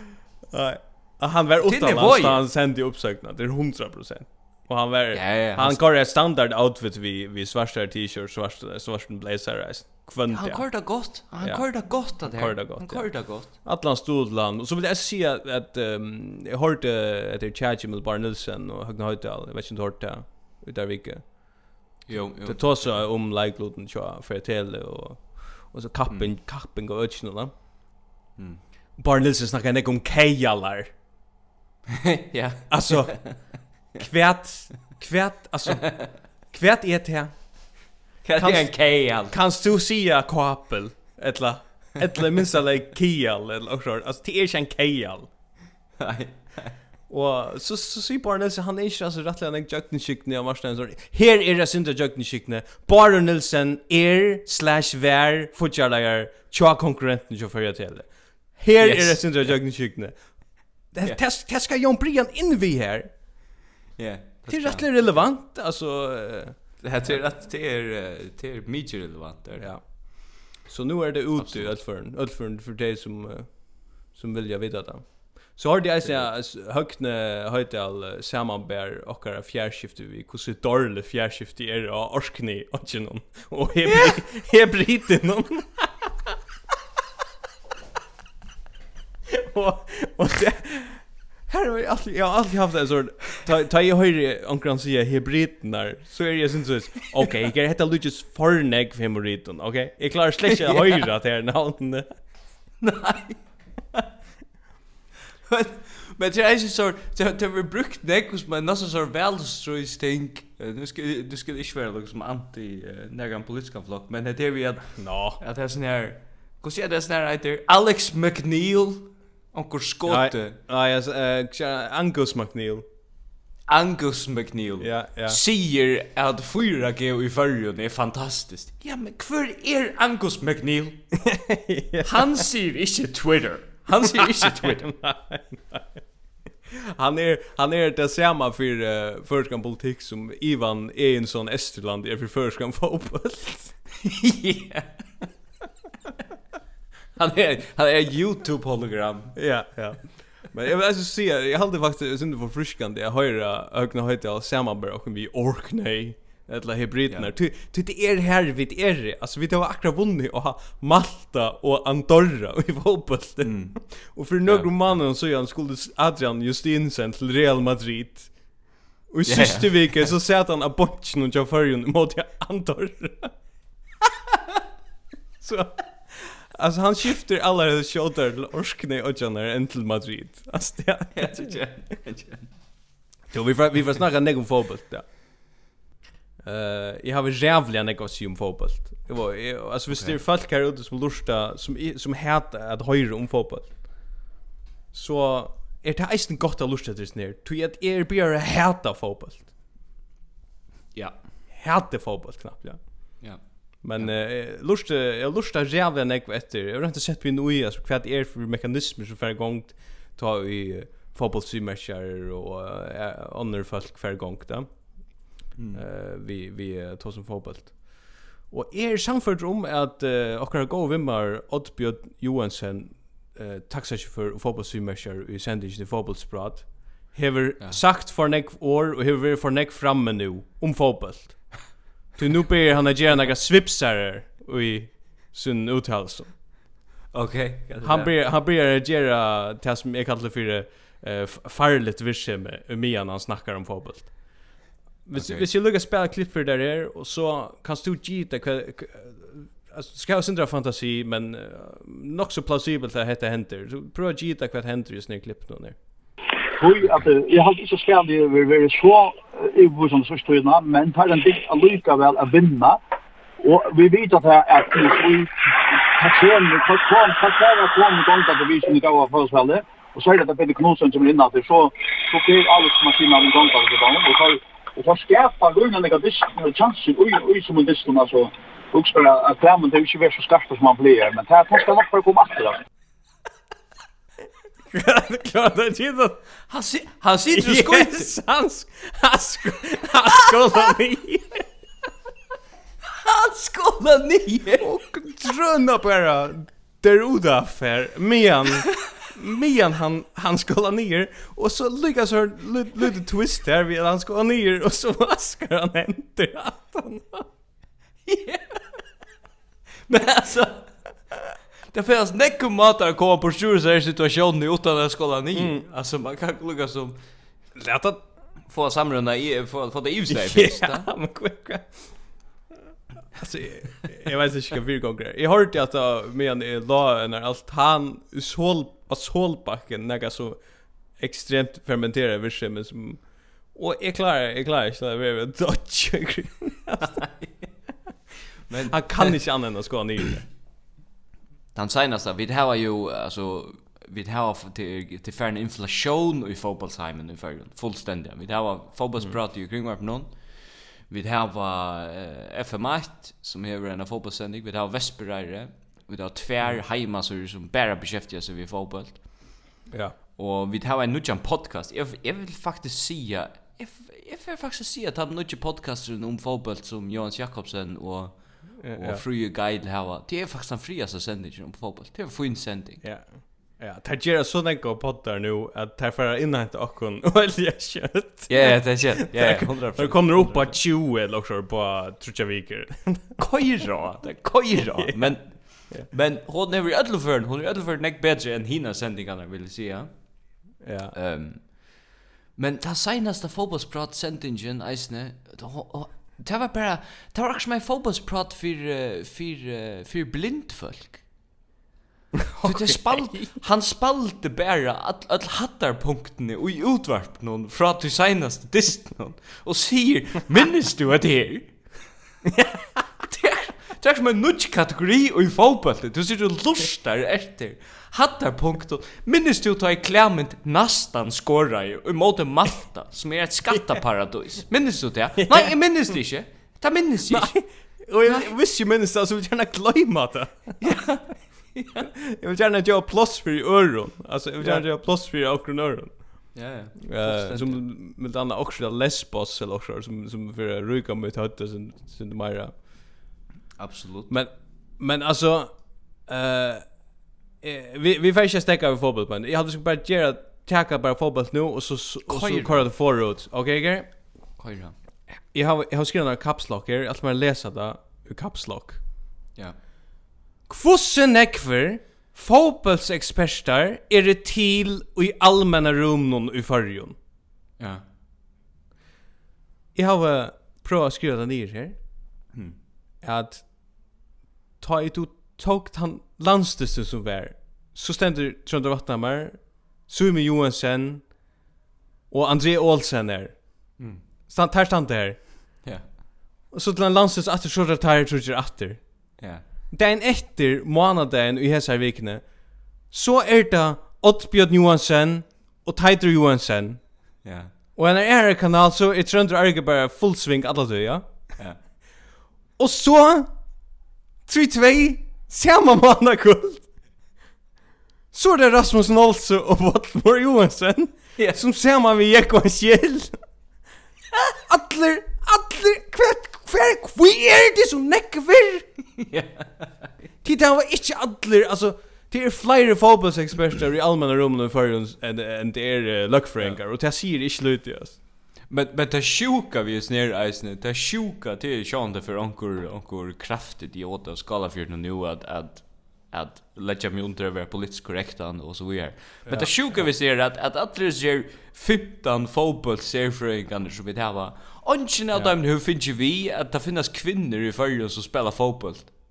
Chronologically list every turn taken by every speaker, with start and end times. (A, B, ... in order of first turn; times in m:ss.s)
0:00.5-0:27.5 A
0:01.6-0:02.4 B
0:05.1-0:05.8 B
0:10.3-0:13.5 B
0:22.1-0:23.0 B
0:28.4-0:28.6 B
0:29.0-0:31.0 A
0:32.2-0:34.0 B
0:32.7-0:45.3 A
0:38.2-0:39.4 B
0:46.0-0:46.8 B
0:47.1-1:03.1 A
0:58.8-0:59.6 B
1:04.0-1:04.9 B
1:04.5-1:07.3 A
1:06.8-1:09.7 B
1:09.6-1:26.3 A
1:11.4-1:11.8 B
1:16.0-1:16.3 B
1:23.9-1:24.2 B
1:29.3-1:42.1 A
1:40.5-1:41.0 B
1:42.8-1:43.4 B
1:45.5-2:00.6 B
1:55.0-1:55.4 A
2:00.0-2:02.9 A
2:03.7-2:11.0 B
2:04.8-2:05.4 A
2:11.2-2:12.5 A
2:12.0-2:14.9 B
2:14.0-2:15.9 A
2:16.7-2:23.8 A
2:24.0-2:25.2 B
2:27.2-2:29.4 B
2:29.4-2:48.5 A
2:43.4-2:43.8 B
2:44.4-2:45.0 B
2:49.1-2:53.3 A
2:49.2-2:50.1 B
2:55.4-3:01.6 A
3:01.1-3:02.5 B
3:03.3-3:05.1 A
3:06.4-3:14.0 A
3:09.9-3:10.2 B
3:14.9-3:19.5 A
3:21.5-3:56.3 A
3:23.2-3:24.1 B
3:35.6-3:35.8 B
3:57.1-3:58.1 B
3:57.8-4:15.8 A
4:05.1-4:05.5 B
4:16.6-4:22.8 C
4:23.4-4:42.6 C
4:44.7-4:46.2 A
4:46.5-4:48.1 B
4:47.3-4:51.5 A
4:53.0-4:54.7 B
4:54.6-5:07.3 A
5:08.0-5:08.6 B
5:09.9-5:10.7 B
5:11.7-5:17.0 B
5:15.4-5:15.6 A
5:17.5-5:18.0 A
5:18.5-5:20.9 B
5:20.1-5:21.9 A
5:23.1-5:30.4 A
5:31.0-5:33.0 A
5:33.5-5:37.0 A
5:37.0-5:37.3 B
5:38.5-5:39.2 B
5:38.6-5:40.2 A
5:41.5-5:59.4 B
5:59.7-6:00.0 A
6:00.2-6:12.8 B
6:08.6-6:09.0 A
6:12.8-6:23.2 A
6:18.3-6:20.6 B
6:23.2-6:41.0 B
6:24.8-6:25.9 A
6:30.6-6:31.0 A
6:42.3-6:43.3 A
6:42.4-6:51.6 B
6:53.0-7:07.4 B
7:05.2-7:05.5 A
7:07.1-7:10.6 A
7:08.0-7:08.3 B
7:10.6-7:11.9 B
7:12.1-7:22.6 A
7:16.4-7:17.6 B
7:23.6-7:24.2 B
7:24.1-7:26.6 A
7:27.4-7:33.9 A
7:32.1-7:32.7 B
7:34.4-7:34.8 B
7:35.3-7:38.8 A
7:40.5-7:47.0 A
7:47.6-7:47.8 B
7:49.8-7:51.8 A
7:53.0-7:53.7 A
7:54.6-8:01.1 A
8:02.1-8:03.8 A
8:04.3-8:05.6 A
8:06.5-8:16.9 A
8:09.2-8:09.4 B
8:17.2-8:17.5 B
8:17.8-8:21.4 A
8:22.6-8:23.3 A
8:24.3-8:26.7 A
8:28.1-8:33.2 A
8:31.2-8:31.4 B
8:34.5-8:38.7 A
8:39.0-8:39.9 B
8:40.2-8:48.0 A
8:48.5-9:08.9 B
8:59.3-8:59.9 A
9:05.1-9:05.4 A